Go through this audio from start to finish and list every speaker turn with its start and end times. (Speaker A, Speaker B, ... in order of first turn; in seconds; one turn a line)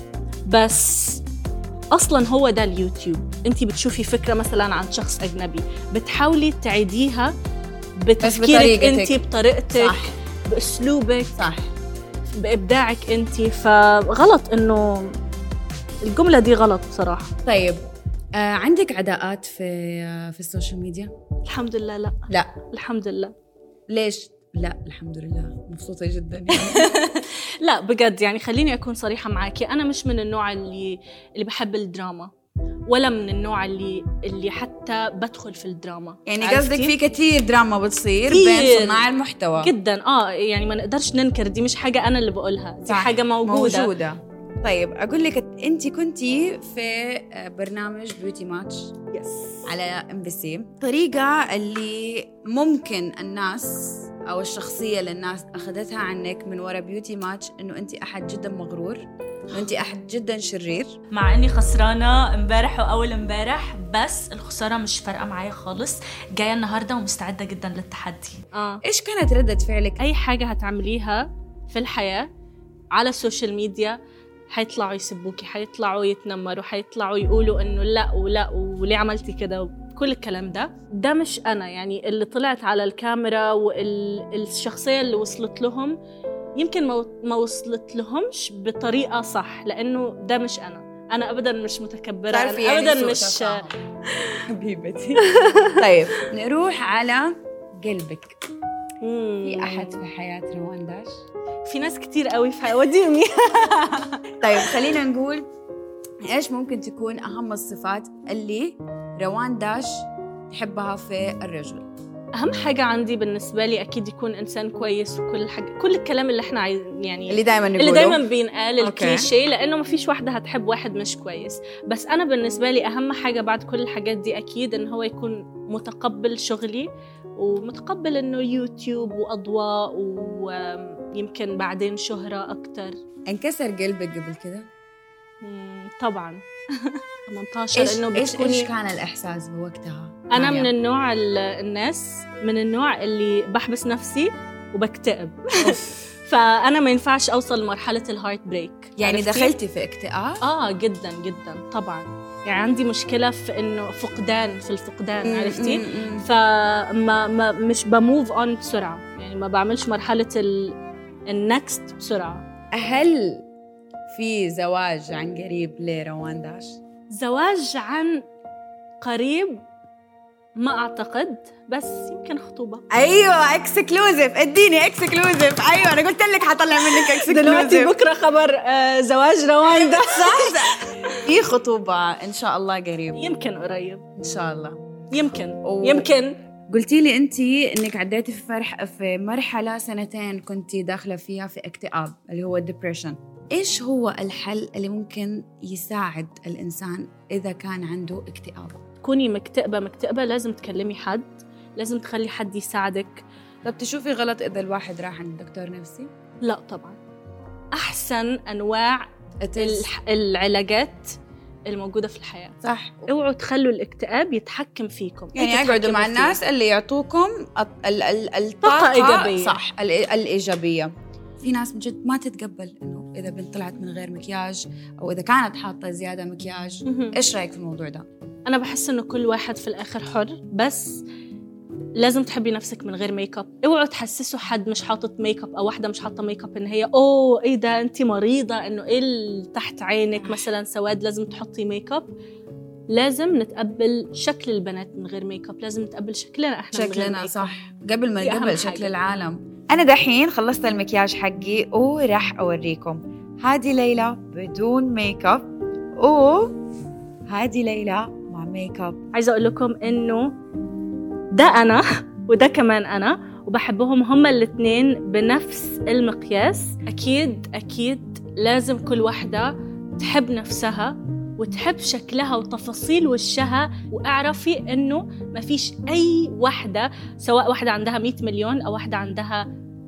Speaker A: 0.5-1.2
Speaker A: 1.9-7.3
Speaker A: 8.0-11.5
Speaker B: 8.2-9.2
Speaker B: 9.7-10.1
Speaker B: 11.4-11.7
Speaker A: 12.3-15.2
Speaker A: 16.1-17.3
Speaker B: 17.4-17.8
Speaker B: 18.4-21.1
Speaker A: 21.5-23.3
Speaker B: 22.3-22.6
Speaker B: 23.9-26.9
Speaker A: 26.5-32.3
Speaker C: 27.2-27.5
Speaker A: 32.9-36.9
Speaker B: 36.3-39.7
Speaker A: 38.3-39.1
Speaker A: 39.6-43.9
Speaker B: 42.9-48.9
Speaker A: 49.1-49.5
Speaker B: 49.6-61.0
Speaker C: 61.1-68.4
Speaker A: 68.5-68.8
Speaker B: 68.8-70.0
Speaker A: 70.0-71.2
Speaker C: 70.7-71.1
Speaker C: 71.7-71.9
Speaker A: 71.9-72.3
Speaker C: 73.0-73.9
Speaker A: 73.1-73.8
Speaker A: 74.5-86.0
Speaker A: 86.6-93.6
Speaker B: 92.3-93.8
Speaker B: 94.5-98.4
Speaker A: 99.0-100.0
Speaker B: 99.4-101.1
Speaker A: 101.7-103.4
Speaker C: 103.5-104.1
Speaker B: 104.4-105.5
Speaker B: 106.3-111.9
Speaker A: 112.4-133.0
Speaker B: 117.3-118.2
Speaker B: 118.8-119.3
Speaker B: 133.3-134.7
Speaker A: 135.4-138.7
Speaker B: 137.7-140.7
Speaker A: 140.3-149.5
Speaker B: 145.6-145.9
Speaker B: 149.0-150.4
Speaker A: 150.4-160.7
Speaker B: 155.2-156.3
Speaker A: 161.3-162.4
Speaker B: 162.7-163.4
Speaker B: 164.1-166.8
Speaker A: 167.1-168.2
Speaker A: 169.0-169.6
Speaker A: 170.6-172.8
Speaker B: 172.9-177.9
Speaker A: 177.0-180.8
Speaker B: 179.6-183.3
Speaker A: 183.1-184.0
Speaker B: 184.2-184.8
Speaker A: 185.1-186.4
Speaker B: 185.6-186.1
Speaker B: 186.7-198.8
Speaker A: 199.0-203.2
Speaker B: 203.6-206.1
Speaker A: 206.4-207.0
Speaker A: 207.7-211.0
Speaker B: 209.4-209.9
Speaker A: 211.7-216.4
Speaker B: 212.6-213.1
Speaker B: 215.3-228.0
Speaker A: 218.6-219.6
Speaker A: 226.8-227.2
Speaker A: 228.5-231.0
Speaker A: 232.0-242.1
Speaker A: 242.9-247.6
Speaker B: 246.7-256.5
Speaker A: 248.2-248.9
Speaker B: 257.3-259.0
Speaker A: 259.1-260.3
Speaker A: 261.3-279.5